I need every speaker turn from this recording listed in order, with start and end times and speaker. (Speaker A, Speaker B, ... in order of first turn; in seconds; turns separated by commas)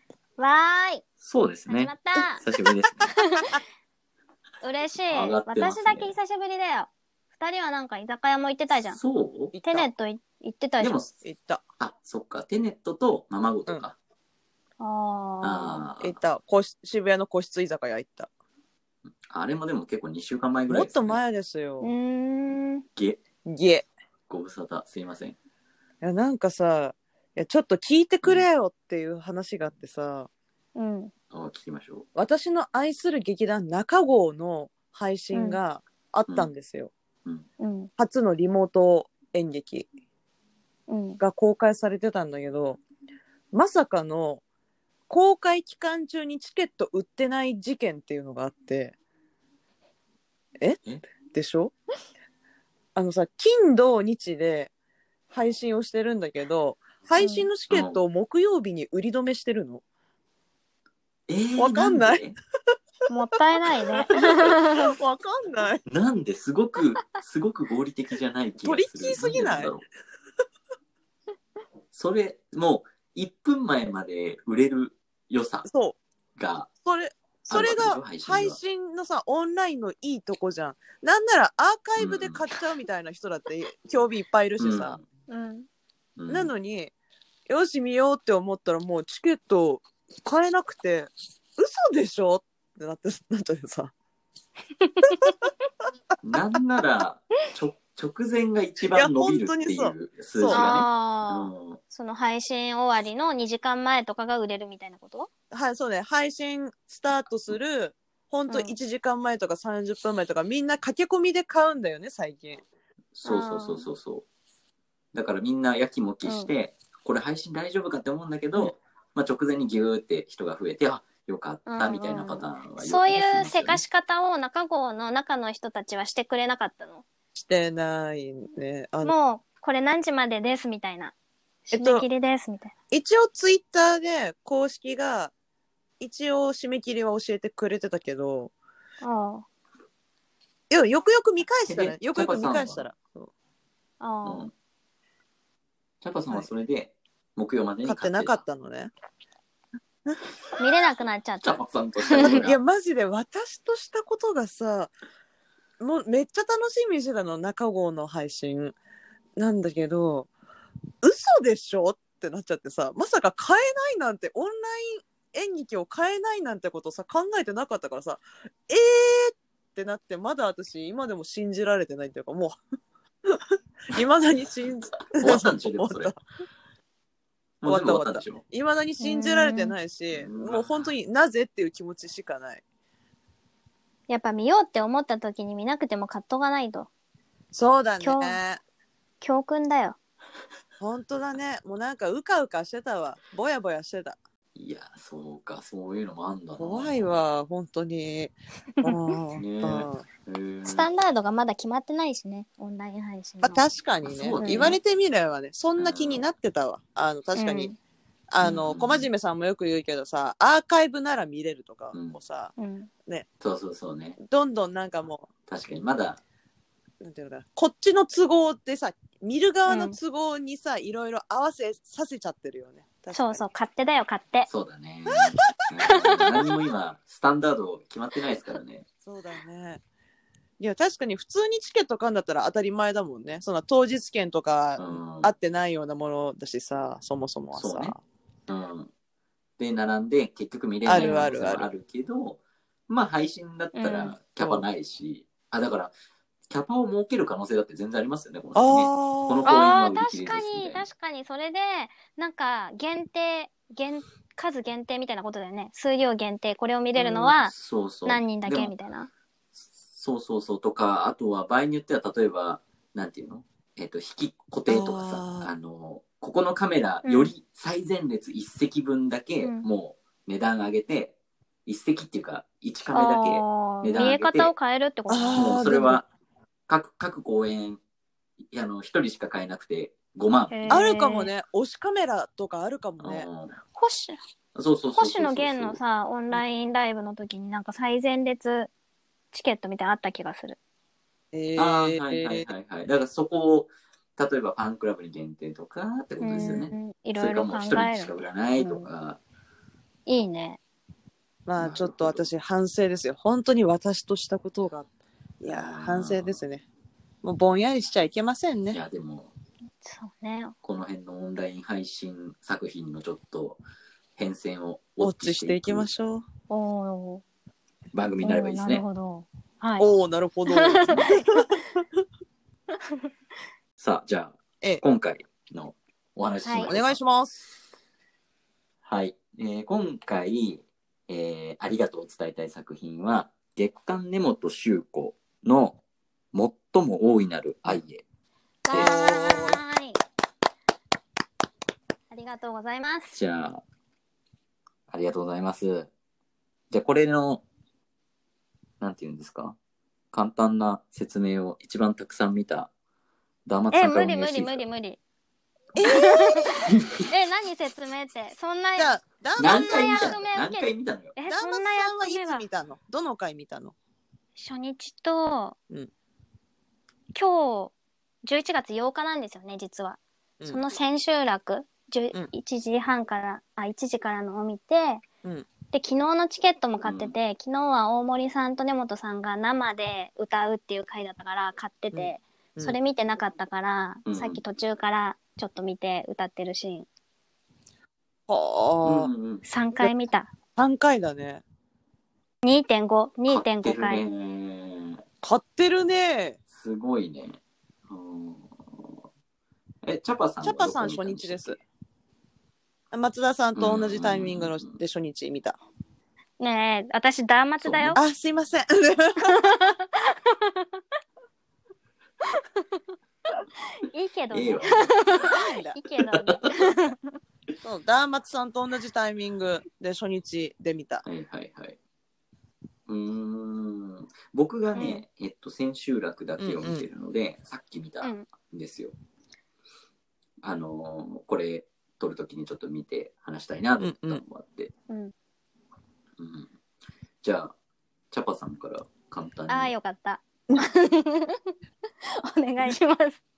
Speaker A: 0.4-1.0, Speaker B: 1.2-3.3, Speaker A: 1.7-2.4, Speaker A: 3.2-3.5, Speaker A: 4.6-9.0, Speaker B: 5.1-6.2, Speaker B: 8.7-9.5, Speaker C: 9.5-9.9, Speaker A: 9.6-11.0, Speaker B: 10.8-11.1, Speaker C: 11.2-11.6, Speaker B: 11.8-13.9, Speaker A: 14.8-15.8, Speaker B: 15.4-16.1, Speaker C: 16.0-18.3, Speaker B: 19.3-21.2, Speaker C: 20.7-21.9, Speaker A: 21.8-22.8, Speaker C: 23.4-23.9, Speaker B: 24.3-25.4, Speaker C: 26.0-30.3, Speaker A: 30.7-31.1, Speaker B: 31.3-32.0, Speaker C: 32.1-36.9, Speaker A: 35.3-35.6, Speaker A: 37.6-37.9, Speaker C: 38.0-39.9, Speaker A: 40.9-41.2, Speaker C: 41.2-42.8, Speaker C: 43.5-44.4, Speaker C: 45.1-49.0, Speaker C: 51.3-51.7, Speaker C: 53.0-54.7, Speaker C: 55.3-59.8, Speaker A: 57.2-57.5, Speaker B: 57.7-58.0, Speaker B: 61.3-62.3, Speaker C: 61.6-62.3, Speaker A: 63.1-64.8, Speaker C: 64.5-65.8, Speaker B: 65.9-69.8, Speaker C: 68.6-69.7, Speaker B: 71.9-75.7, Speaker C: 75.7-76.0, Speaker B: 76.4-76.7, Speaker C: 76.8-85.0, Speaker B: 77.5-78.6, Speaker B: 82.0-82.5, Speaker B: 84.6-85.0, Speaker A: 85.3-85.7, Speaker B: 86.2-86.5, Speaker C: 86.3-86.9, Speaker C: 87.5-93.9, Speaker A: 94.8-95.3, Speaker B: 96.2-101.8, Speaker C: 98.9-100.7, Speaker A: 100.5-105.3, Speaker C: 105.5-112.6, Speaker A: 108.5-108.8, Speaker B: 113.1-114.2, Speaker A: 113.2-113.9, Speaker B: 115.1-123.8, Speaker A: 116.2-116.5, Speaker A: 121.7-127.0, Speaker C: 127.3-129.1, Speaker A: 129.0-131.1, Speaker A: 131.7-132.7, Speaker C: 131.7-132.1, Speaker C: 132.9-135.3, Speaker C: 136.0-138.5, Speaker A: 139.0-139.4, Speaker C: 140.7-143.3, Speaker B: 141.6-142.9, Speaker A: 144.0-144.4, Speaker B: 144.2-144.5, Speaker B: 146.0-148.4, Speaker C: 147.8-148.9, Speaker A: 150.6-152.5, Speaker B: 151.4-152.6, Speaker C: 152.2-154.9, Speaker C: 155.8-158.8, Speaker C: 159.4-160.3, Speaker C: 161.0-172.6, Speaker C: 173.9-176.2, Speaker B: 175.1-176.2, Speaker B: 177.6-178.4, Speaker C: 177.6-182.6, Speaker A: 179.0-179.7, Speaker B: 180.1-180.9, Speaker A: 184.1-186.9, Speaker C: 187.5-188.6, Speaker A: 188.0-188.4, Speaker A: 189.2-190.0, Speaker C: 190.8-194.2, Speaker B: 194.6-197.2, Speaker C: 196.6-200.1, Speaker B: 199.3-200.9, Speaker A: 200.6-203.6, Speaker C: 203.4-207.7, Speaker B: 204.0-204.8, Speaker A: 204.4-204.8, Speaker B: 205.8-206.3, Speaker A: 207.3-207.8, Speaker C: 208.3-212.5, Speaker B: 208.4-209.1, Speaker B: 211.9-212.2, Speaker A: 212.6-212.9, Speaker B: 213.4-214.2, Speaker C: 214.2-215.3, Speaker B: 215.5-216.2, Speaker C: 217.0-223.4, Speaker A: 219.7-220.0, Speaker A: 223.1-224.5, Speaker B: 224.5-228.8, Speaker A: 225.8-226.4, Speaker C: 229.0-229.8, Speaker C: 230.6-238.0, Speaker B: 234.8-235.3, Speaker B: 237.5-237.9, Speaker B: 238.5-238.9, Speaker B: 239.6-245.9, Speaker C: 240.8-241.7, Speaker A: 240.9-241.3, Speaker A: 243.7-244.1, Speaker C: 244.4-244.7, Speaker B: 246.5-250.9, Speaker C: 248.5-249.5, Speaker A: 249.4-257.5, Speaker B: 256.9-258.7, Speaker A: 258.1-259.1, Speaker B: 259.7-274.5, Speaker C: 264.7-265.5, Speaker A: 267.0-267.3, Speaker A: 269.4-269.6, Speaker A: 272.9-275.6, Speaker C: 275.1-276.0, Speaker B: 275.3-276.1, Speaker B: 276.7-277.8, Speaker B: 278.5-280.9, Speaker A: 280.5-281.3, Speaker C: 280.7-283.3, Speaker B: 283.0-283.6, Speaker A: 283.7-284.2, Speaker B: 284.5-285.8, Speaker A: 284.9-288.7, Speaker A: 289.3-290.6, Speaker C: 291.3-292.5, Speaker B: 291.6-299.2, Speaker A: 296.2-298.9, Speaker A: 300.1-300.6, Speaker C: 301.4-304.9, Speaker B: 301.6-302.3, Speaker C: 305.4-306.6, Speaker B: 305.4-306.4, Speaker C: 307.2-308.8, Speaker B: 308.7-309.3, Speaker A: 309.8-310.5, Speaker B: 310.6-313.6, Speaker B: 314.2-315.9, Speaker C: 315.0-316.2, Speaker A: 316.5-317.2, Speaker B: 317.9-318.8, Speaker A: 318.2-319.9, Speaker C: 319.8-321.5, Speaker A: 320.5-321.1, Speaker B: 320.8-321.1, Speaker B: 323.8-327.0, Speaker A: 326.4-326.7, Speaker C: 326.6-327.5, Speaker B: 328.8-335.8, Speaker B: 336.3-338.0, Speaker A: 338.6-339.9, Speaker B: 338.7-339.2, Speaker C: 338.7-339.6, Speaker A: 342.1-343.1, Speaker B: 343.1-343.6, Speaker B: 344.9-345.9, Speaker B: 346.7-347.4, Speaker B: 348.8-349.6, Speaker B: 350.1-352.7, Speaker B: 353.4-354.6, Speaker A: 353.7-355.0, Speaker C: 355.7-356.5, Speaker A: 355.8-362.4, Speaker C: 358.8-360.1, Speaker B: 359.4-361.1, Speaker C: 361.3-363.7, Speaker A: 364.3-365.6, Speaker A: 367.1-375.0, Speaker A: 375.7-386.9, Speaker B: 376.8-377.1, Speaker C: 381.9-382.8, Speaker B: 384.1-384.4, Speaker C: 388.3-389.1, Speaker B: 388.8-389.4, Speaker A: 389.4-390.3, Speaker C: 390.6-391.4, Speaker A: 392.4-394.0, Speaker B: 393.3-395.0, Speaker C: 395.2-396.4, Speaker B: 396.5-397.4, Speaker B: 397.9-399.0, Speaker B: 399.8-401.6, Speaker C: 400.4-401.6, Speaker C: 402.9-405.6, Speaker B: 403.6-404.8, Speaker A: 406.4-408.0, Speaker B: 407.6-408.0, Speaker C: 407.9-409.3, Speaker A: 409.3-410.6, Speaker A: 412.4-412.6, Speaker A: 413.8-417.1, Speaker B: 414.3-415.3, Speaker C: 415.2-415.8, Speaker B: 416.3-416.7, Speaker C: 417.6-421.0, Speaker B: 421.0-421.8, Speaker B: 422.9-428.9, Speaker A: 424.7-425.0, Speaker C: 426.4-426.9, Speaker A: 428.0-428.3, Speaker B: 430.4-434.7, Speaker C: 433.8-434.2, Speaker B: 436.2-436.5, Speaker B: 437.2-437.5, Speaker B: 438.1-439.7, Speaker A: 439.5-441.5, Speaker A: 442.2-443.2